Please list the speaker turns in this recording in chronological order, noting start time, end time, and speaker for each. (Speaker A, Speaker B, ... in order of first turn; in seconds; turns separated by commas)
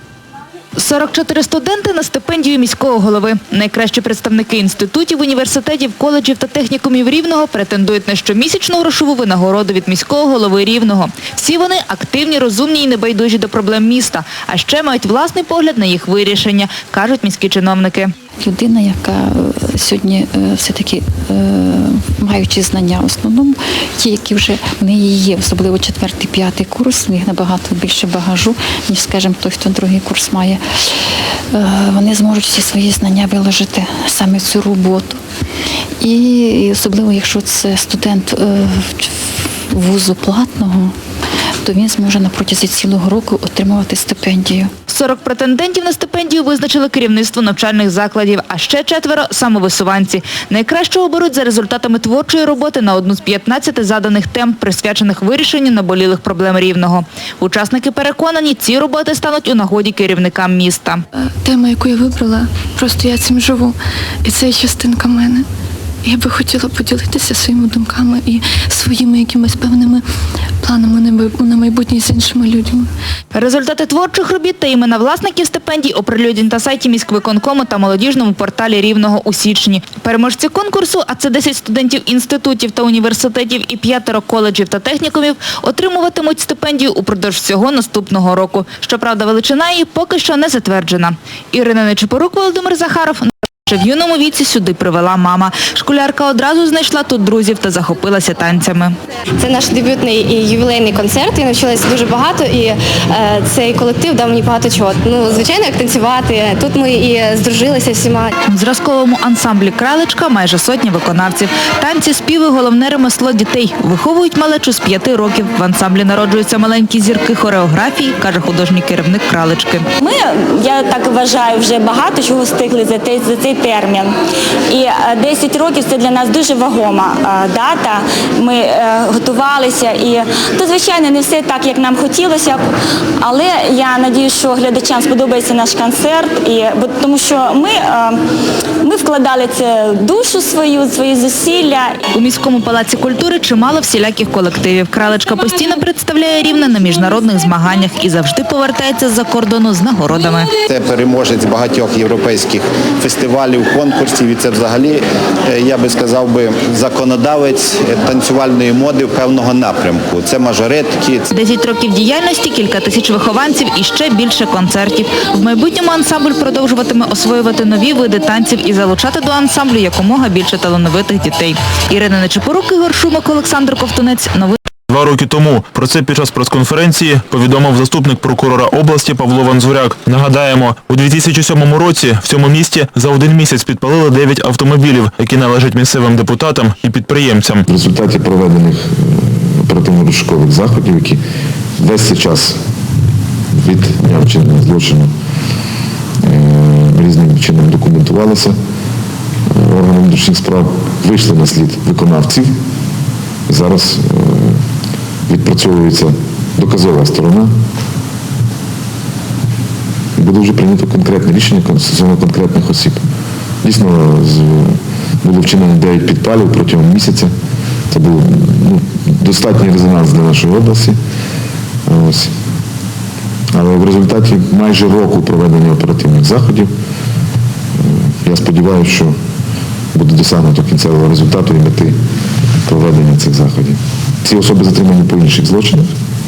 Speaker A: 0.8-18.1, Speaker B: 18.4-30.6, Speaker B: 31.5-35.2, Speaker B: 36.0-39.1, Speaker B: 39.7-40.9, Speaker B: 41.6-44.7, Speaker A: 44.9-61.0, Speaker C: 61.4-65.5, Speaker C: 66.0-70.0, Speaker C: 70.6-72.9, Speaker A: 73.3-98.9, Speaker D: 99.4-108.3, Speaker A: 108.5-119.8, Speaker E: 120.0-124.1, Speaker E: 124.7-132.6, Speaker E: 133.2-138.2, Speaker E: 138.8-142.0, Speaker A: 142.1-150.5, Speaker F: 150.7-161.3, Speaker A: 161.3-174.6, Speaker G: 174.9-187.6, Speaker H: 187.7-191.2, Speaker H: 191.8-192.6, Speaker H: 193.6-195.1, Speaker H: 196.2-198.6, Speaker H: 199.5-202.5, Speaker H: 203.5-204.6, Speaker H: 205.3-207.5, Speaker H: 210.2-213.0, Speaker H: 213.6-217.3, Speaker H: 217.9-221.0, Speaker H: 221.9-222.3, Speaker H: 223.6-226.7, Speaker H: 227.8-229.1, Speaker H: 229.9-232.0, Speaker H: 232.7-235.9